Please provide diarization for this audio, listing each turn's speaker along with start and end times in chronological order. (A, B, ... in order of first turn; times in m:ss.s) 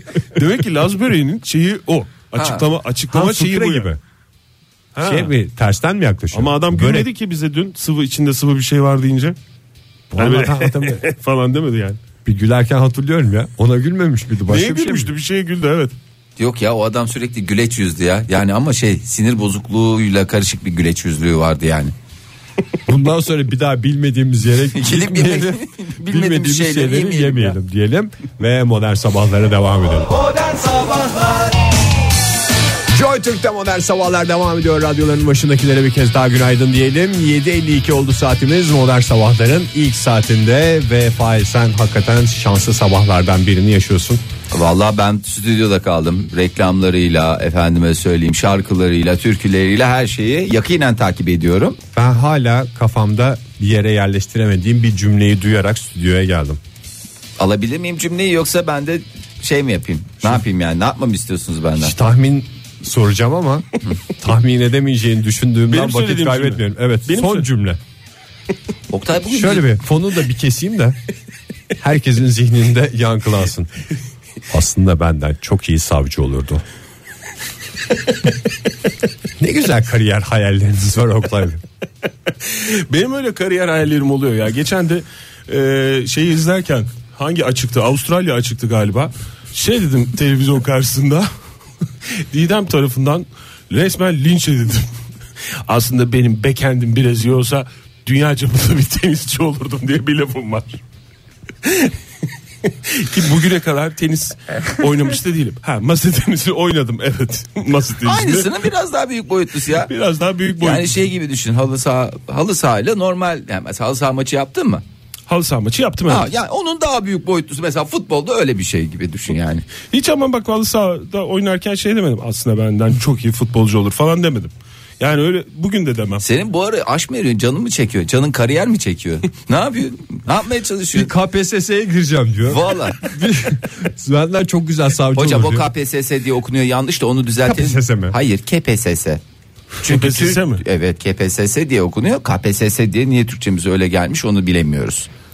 0:00.3-0:03.9 A
0:02.3-0:02.6 B
0:03.1-0:04.0 C
0:04.9-0:05.3 A
0:05.0-0:07.1 C
0:06.3-0:09.4 A
0:10.1-0:11.0 C
0:10.2-0:12.0 A
0:12.2-0:15.1 C
0:14.5-0:15.9 A
0:16.4-0:21.9 B
0:22.9-0:30.2 C
0:24.7-0:27.6 B
0:30.8-0:31.1 B
0:32.9-0:44.2 C
0:44.5-0:51.8 B
0:51.9-0:56.6 C
0:57.4-1:01.9 B
1:01.8-1:03.6 C
1:04.2-1:07.8 C
1:05.7-1:07.5 A
1:08.9-1:09.7 B
1:09.3-1:11.0 C
1:11.8-1:13.7 C
1:14.5-1:16.6 C
1:19.4-1:21.6 C
1:22.4-1:31.3 A
1:32.3-1:34.9 A
1:35.7-1:40.8 A
1:41.6-1:41.9 A
1:42.6-1:48.5 A
1:48.0-1:49.9 B
1:49.7-1:50.9 A
1:50.6-1:54.8 B
1:55.3-1:56.3 A
1:56.1-1:59.6 B
1:59.9-2:06.2 A
2:06.2-2:11.1 B
2:10.9-2:15.6 C
2:12.5-2:13.1 B
2:15.1-2:19.2 B
2:17.4-2:18.2 C
2:19.8-2:25.1 B
2:19.8-2:20.6 A